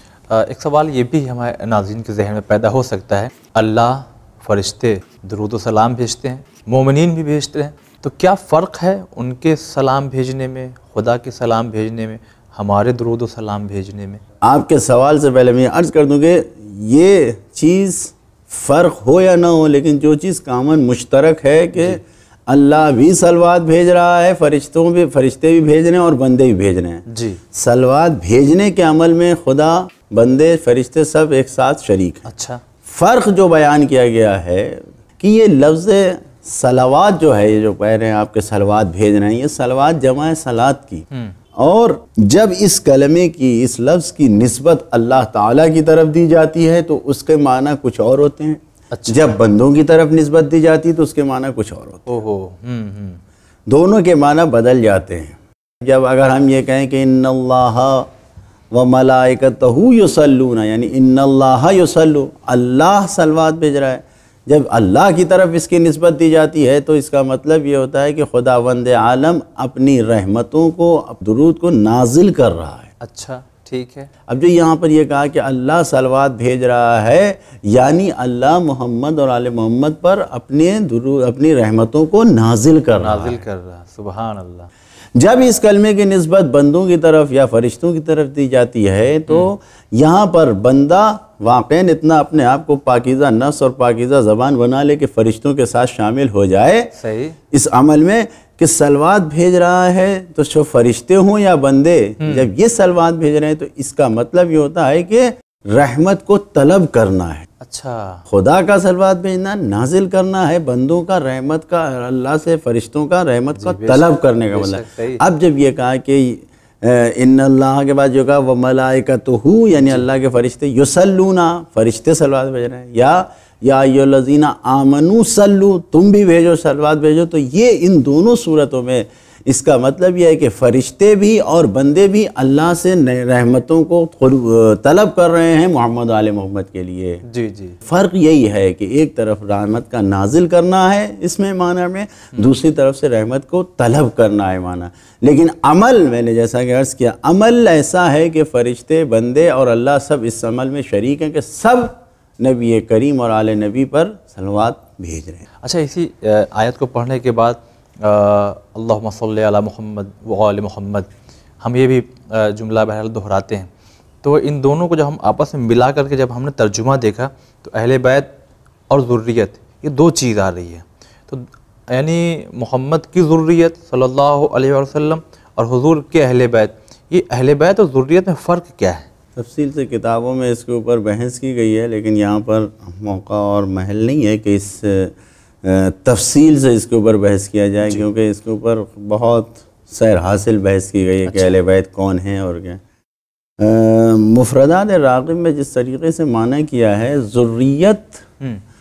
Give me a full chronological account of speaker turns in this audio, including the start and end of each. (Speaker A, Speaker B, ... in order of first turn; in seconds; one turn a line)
Speaker A: 0.3-14.2
Speaker B: 14.4-32.3
Speaker A: 21.7-22.0
Speaker A: 27.1-27.4
Speaker A: 32.2-32.6
Speaker B: 32.8-41.0
Speaker A: 41.1-41.4
Speaker B: 41.5-52.1
Speaker A: 48.9-49.3
Speaker A: 52.1-53.2
Speaker B: 53.7-58.1
Speaker B: 58.7-72.9
Speaker A: 73.0-74.1
Speaker B: 74.3-83.4
Speaker A: 83.0-84.7
Speaker B: 85.2-96.9
Speaker A: 89.3-89.5
Speaker A: 97.0-97.4
Speaker B: 97.5-107.5
Speaker A: 102.2-102.5
Speaker A: 107.6-108.2
Speaker B: 108.3-137.2
Speaker A: 113.5-115.2
Speaker A: 119.8-120.1
Speaker A: 137.2-137.8
Speaker B: 137.8-155.4
Speaker A: 155.6-161.1
Speaker A: 161.6-163.7
Speaker A: 164.2-168.3
Speaker A: 168.9-179.1
Speaker B: 179.3-192.8
Speaker A: 191.2-191.6
Speaker B: 193.6-198.2